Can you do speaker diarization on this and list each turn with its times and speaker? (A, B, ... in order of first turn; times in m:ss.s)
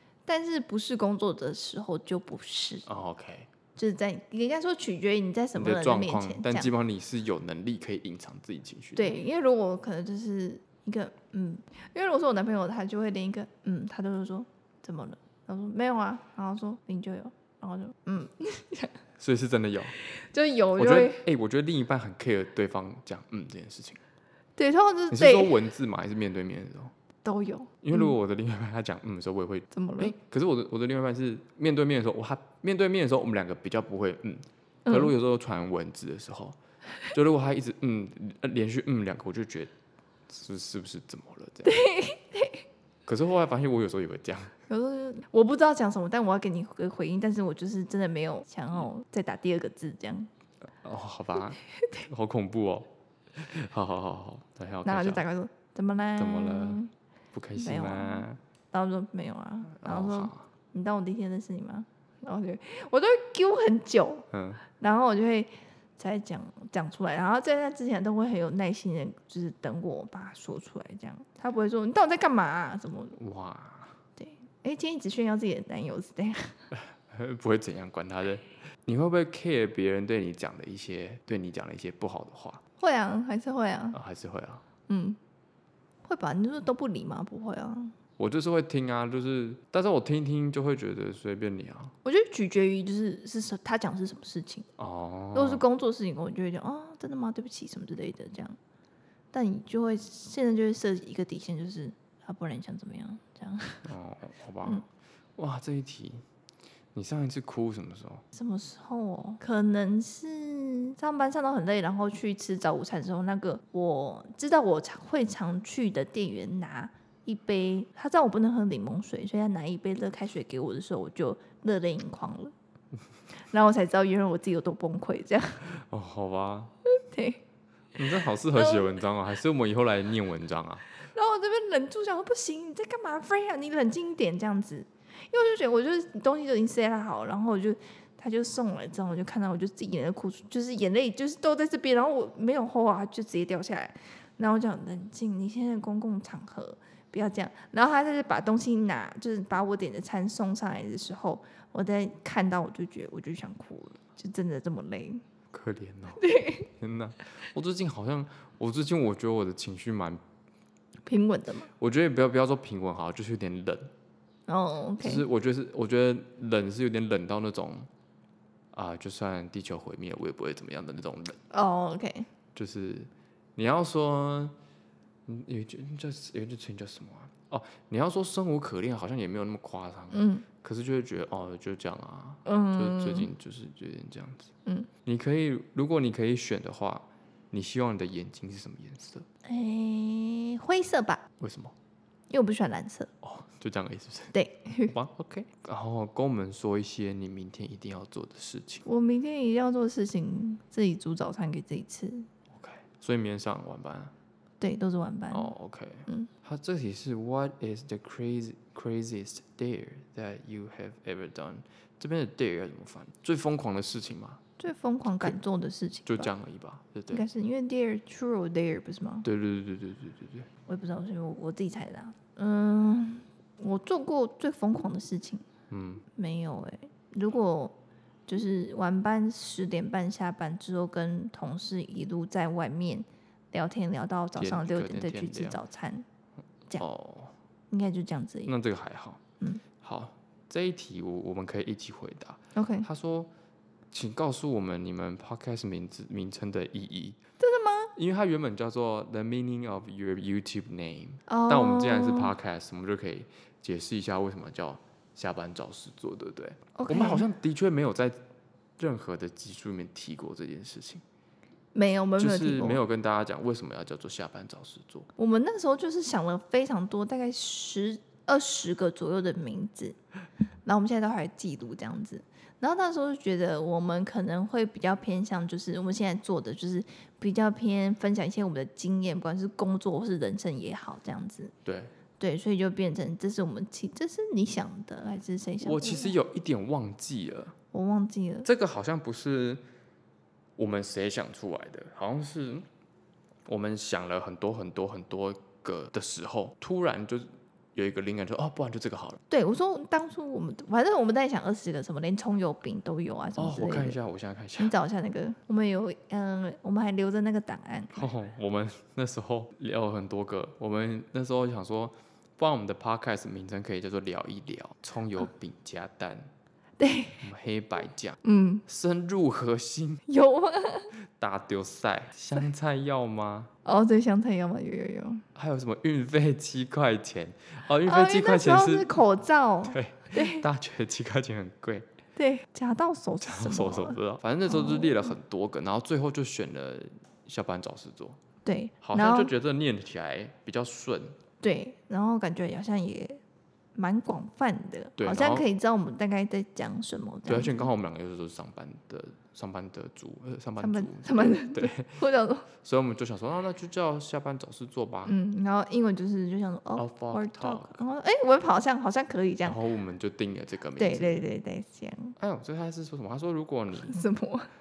0:00.3-0:02.9 A
0:02.9-0:03.5 B
0:03.8-0:06.7 A
0:05.6-0:09.2 B
0:09.0-0:19.0 A
0:19.2-0:20.0 B
0:20.0-0:21.3 A
0:20.8-0:24.0 B
0:24.6-0:25.6 A
0:25.1-0:26.9 B
0:27.2-0:28.1 A
0:27.8-0:36.6 B
0:29.7-0:30.1 A
0:34.9-0:35.1 A
0:37.1-0:39.7 B
0:40.3-0:41.8 B
0:41.6-0:42.7 A
0:43.1-0:44.5 B
0:44.7-0:50.3 A
0:50.8-0:55.2 B
0:54.8-0:56.9 A
0:56.2-0:56.8 B
0:57.3-0:58.4 B
0:57.6-1:13.2 A
0:59.7-1:00.5 B
1:04.3-1:04.6 B
1:13.2-1:14.0 B
1:14.2-1:16.6 A
1:16.7-1:22.6 B
1:22.8-1:24.0 A
1:23.9-1:24.6 B
1:24.9-1:25.2 A
1:26.0-1:28.0 A
1:28.2-1:31.9 B
1:32.0-1:34.7 A
1:34.8-1:35.6 B
1:35.3-1:38.6 A
1:39.3-1:43.9 A
1:43.8-1:44.9 B
1:45.4-1:46.2 B
1:47.0-1:48.2 B
1:48.3-2:02.5 A
2:03.4-2:05.6 A
2:05.6-2:06.7 B
2:06.9-2:07.4 A
2:08.0-2:11.0 B
2:08.5-2:08.9 A
2:11.1-2:35.2 A
2:35.5-2:40.2 B
2:36.2-2:36.7 A
2:41.1-2:41.7 A
2:41.8-2:43.9 B
2:44.5-2:45.2 A
2:45.0-2:47.9 B
2:48.7-2:51.4 B
2:51.5-2:52.3 A
2:52.6-2:54.6 B
2:55.3-3:04.5 B
3:00.1-3:00.4 A
3:02.5-3:03.3 A
3:05.0-3:09.3 B
3:09.4-3:11.2 A
3:11.4-3:11.7 B
3:12.3-3:13.1 A
3:13.2-3:14.4 B
3:14.3-3:14.9 A
3:14.9-3:18.9 B
3:18.9-3:22.3 A
3:22.5-3:24.1 B
3:24.6-3:25.5 A
3:25.3-3:34.4 B
3:34.6-3:36.3 A
3:36.1-3:37.2 B
3:37.1-3:39.3 A
3:39.2-3:40.5 B
3:40.7-3:45.4 A
3:45.7-3:46.0 B
3:46.1-3:47.8 A
3:48.3-3:56.1 A
3:54.4-3:55.6 B
3:56.8-3:57.3 B
3:57.7-3:58.5 A
3:58.4-3:59.2 B
3:59.8-4:03.3 B
4:02.6-4:02.9 A
4:03.9-4:07.2 B
4:07.4-4:07.9 A
4:08.0-4:18.2 B
4:11.3-4:12.3 A
4:16.8-4:17.2 A
4:18.8-4:21.0 B
4:21.7-4:22.8 A
4:22.2-4:25.1 B
4:25.2-4:30.0 A
4:30.6-4:41.5 A
4:41.6-4:41.9 B
4:42.2-4:46.2 A
4:45.6-4:47.6 B
4:47.7-4:48.5 A
4:48.4-4:49.6 B
4:50.6-4:52.7 B
4:53.5-4:59.2 B
4:59.3-5:04.0 A
5:03.4-5:04.7 B
5:04.6-5:08.1 A
5:07.9-5:16.3 B
5:16.8-5:17.3 A
5:17.2-5:20.0 B
5:18.2-5:18.6 A
5:20.1-5:20.9 A
5:20.9-5:23.5 B
5:23.6-5:25.2 A
5:25.4-5:29.0 B
5:27.8-5:30.5 A
5:29.7-5:31.9 B
5:32.2-5:35.1 A
5:33.2-5:38.2 B
5:38.4-5:39.3 A
5:38.8-5:41.2 B
5:41.4-5:43.2 A
5:43.8-5:47.7 A
5:45.0-5:45.5 B
5:47.3-5:55.2 B
5:50.6-5:52.5 A
5:55.1-5:59.6 A
5:56.8-5:57.8 B
5:59.4-6:01.2 B
6:00.8-6:02.2 A
6:02.2-6:04.0 B
6:03.8-6:04.5 A